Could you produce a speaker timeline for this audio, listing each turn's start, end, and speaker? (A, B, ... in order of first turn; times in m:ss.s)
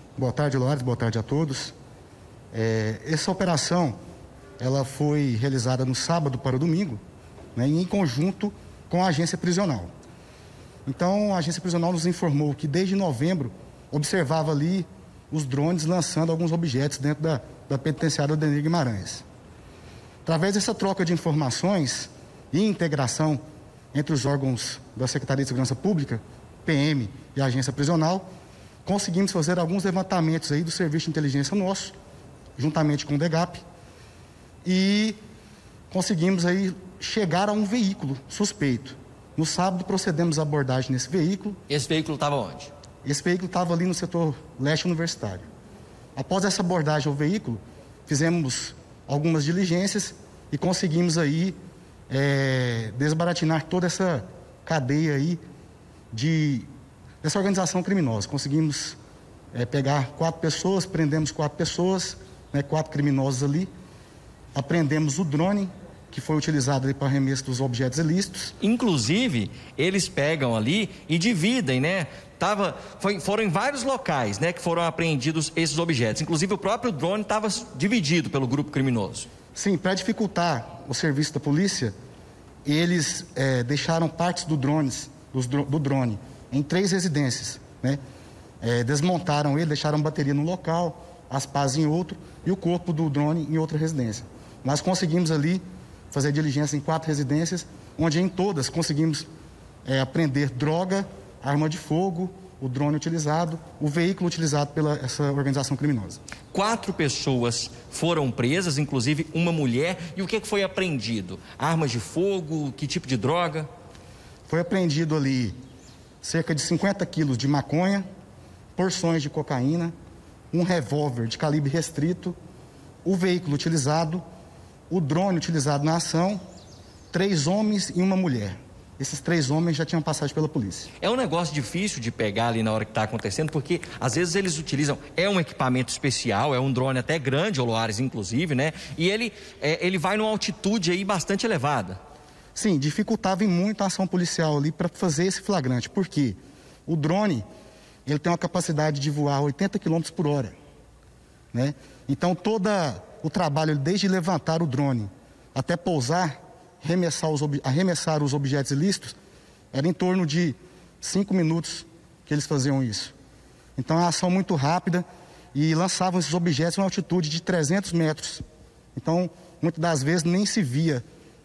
0:00.2-0:01.7 A
0:02.5-0:04.0 A
0:04.6-0:07.0 A
0:07.5-0:09.9 A
0:10.8-0:19.2 A
0:20.2-0:23.4 A
0:23.9-0:28.3 A
0:28.8-0:31.9 A
0:32.6-0:33.6 A
0:34.6-0:35.2 A
0:35.9-0:41.6 A
0:41.7-0:42.7 B
0:43.0-0:45.4 A
0:46.2-0:51.6 A
0:52.1-0:55.4 A
0:56.1-0:56.7 A
0:57.2-0:59.0 A
0:59.5-1:03.7 A
1:04.5-1:08.5 A
1:08.6-1:19.3 B
1:19.5-1:21.9 A
1:22.6-1:28.0 A
1:28.6-1:39.3 A
1:39.8-1:46.2 A
1:46.5-1:53.7 B
1:54.5-1:55.5 A
1:56.2-1:58.0 A
1:58.8-1:59.9 A
2:00.5-2:02.4 A
2:03.0-2:04.2 A
2:04.9-2:06.4 A
2:07.1-2:10.9 A
2:11.0-2:22.0 B
2:22.5-2:27.4 A
2:28.0-2:30.6 A
2:31.5-2:39.1 A
2:39.7-2:43.1 A
2:43.8-2:48.4 A
2:48.9-2:51.0 A